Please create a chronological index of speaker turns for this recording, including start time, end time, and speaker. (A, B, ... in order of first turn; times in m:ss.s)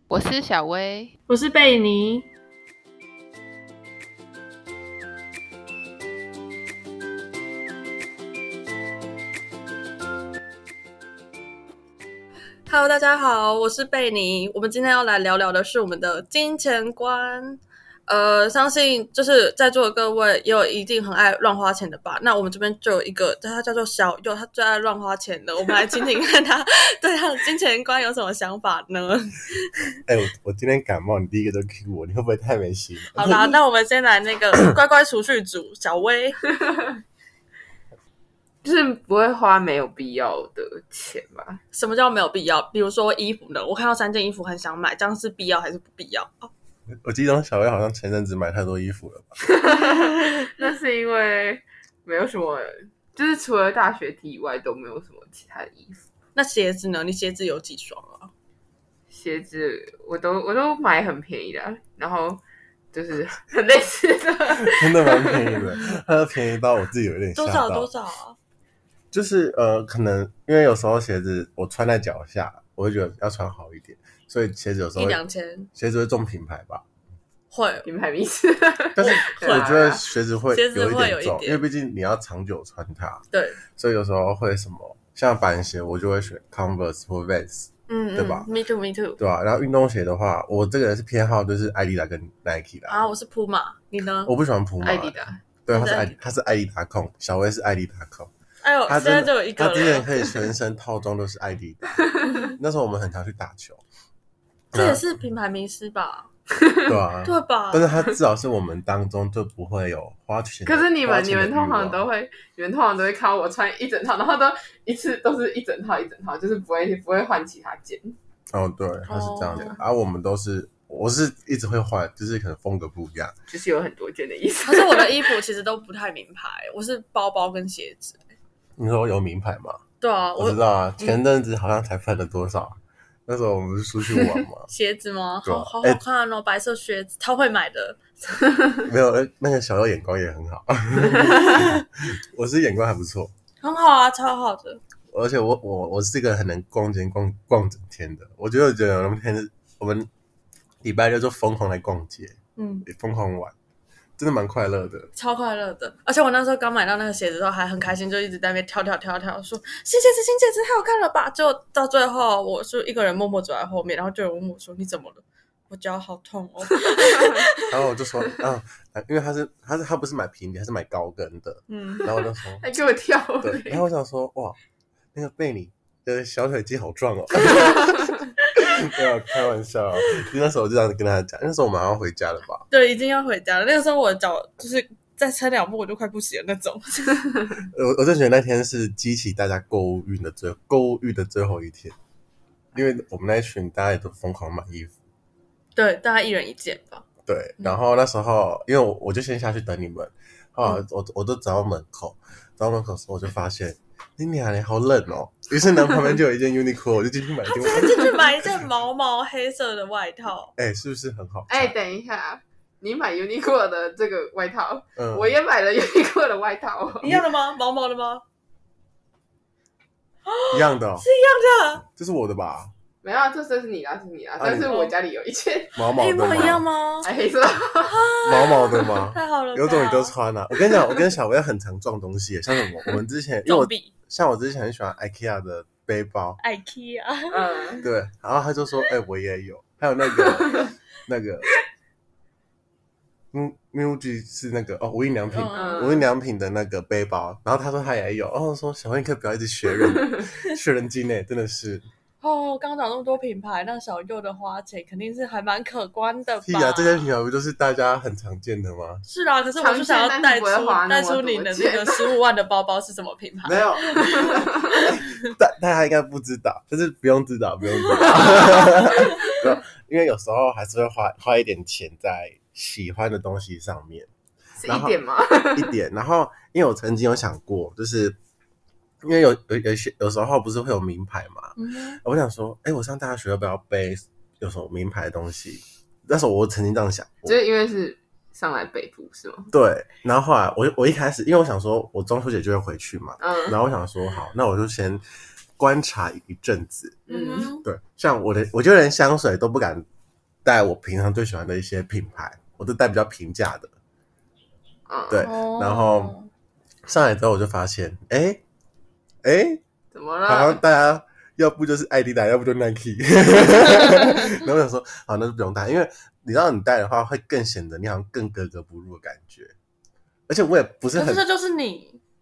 0:00.1-0:01.1 A
0:01.3-0:02.2 B
0:12.7-0:30.0 B
0:30.1-0:33.6 C
0:33.1-0:36.4 B
0:38.6-0:41.6 A
0:41.7-0:46.5 B
0:47.0-0:49.4 C
0:49.4-0:56.0 A
0:49.9-0:50.5 B
0:56.4-0:58.3 B
0:59.1-1:02.4 A
1:02.9-1:05.6 A
1:04.6-1:07.9 C
1:07.4-1:08.4 B
1:09.1-1:15.2 C
1:15.0-1:15.7 B
1:15.7-1:16.8 C
1:17.5-1:17.9 B
1:17.8-1:20.0 A
1:19.0-1:23.2 C
1:19.0-1:21.6 B
1:23.3-1:23.6 B
1:23.8-1:28.5 C
1:27.9-1:29.2 B
1:29.2-1:33.0 C
1:32.9-1:34.3 B
1:34.2-1:38.3 C
1:34.8-1:35.4 A
1:35.7-1:36.2 B
1:38.6-1:40.5 B
1:38.9-1:43.8 C
1:42.1-1:42.4 A
1:42.3-1:42.5 B
1:44.7-1:45.0 C
1:44.7-1:46.3 B
1:46.5-1:46.9 A
1:46.9-1:52.0 C
1:47.2-1:47.9 B
1:50.6-1:58.2 A
1:58.5-2:03.3 C
1:59.1-1:59.8 B
2:03.5-2:05.4 A
2:04.6-2:08.2 B
2:08.8-2:09.8 C
2:10.0-2:10.6 B
2:10.4-2:14.7 C
2:14.7-2:18.5 B
2:15.4-2:16.0 C
2:18.8-2:23.3 C
2:21.2-2:21.4 A
2:21.4-2:21.8 B
2:23.6-2:24.8 B
2:25.1-2:30.1 C
2:30.8-2:33.5 C
2:32.6-2:32.8 B
2:34.2-2:35.1 C
2:35.2-2:47.7 B
2:46.8-2:47.5 A
2:47.6-2:52.6 C
2:51.7-2:52.1 B
2:52.6-2:53.8 A
2:53.4-2:54.6 C
2:55.1-3:02.6 C
3:02.7-3:07.5 B
3:07.7-3:11.9 C
3:12.7-3:14.9 C
3:15.8-3:17.0 B
3:17.2-3:28.3 C
3:27.5-3:30.5 B
3:30.6-3:31.7 C
3:31.5-3:37.2 A
3:35.0-3:35.3 C
3:37.0-3:38.2 B
3:40.2-3:41.8 B
3:40.5-3:41.0 C
3:41.9-3:42.7 C
3:43.0-3:45.7 A
3:44.4-3:44.7 C
3:44.6-3:44.9 B
3:45.8-3:46.6 C
3:46.0-3:47.1 B
3:47.0-3:48.0 A
3:47.8-3:51.0 B
3:48.2-3:56.4 C
3:53.4-3:53.9 B
3:56.4-3:57.8 B
3:57.3-3:57.9 A
3:57.8-4:01.5 C
4:03.3-4:11.8 C
4:05.3-4:06.0 B
4:05.5-4:06.1 A
4:12.2-4:17.1 B
4:16.4-4:19.0 C
4:19.0-4:24.9 B
4:19.6-4:22.2 A
4:23.4-4:34.1 C
4:24.0-4:24.9 A
4:28.0-4:29.1 B
4:34.6-4:35.7 A
4:34.6-4:35.0 C
4:35.5-4:38.2 C
4:39.0-4:47.4 C
4:41.6-4:42.0 B
4:47.2-4:49.5 A
4:49.5-4:55.0 C
4:53.2-4:53.6 A
4:55.6-4:57.1 C
4:57.1-4:57.5 A
4:57.1-4:57.6 B
4:57.6-4:59.8 C
5:00.4-5:03.7 C
5:04.9-5:05.3 A
5:05.1-5:06.1 C
5:05.2-5:06.3 B
5:06.9-5:08.4 C
5:09.2-5:09.6 C
5:09.9-5:10.6 A
5:10.3-5:19.5 C
5:20.3-5:21.2 C
5:20.9-5:22.0 B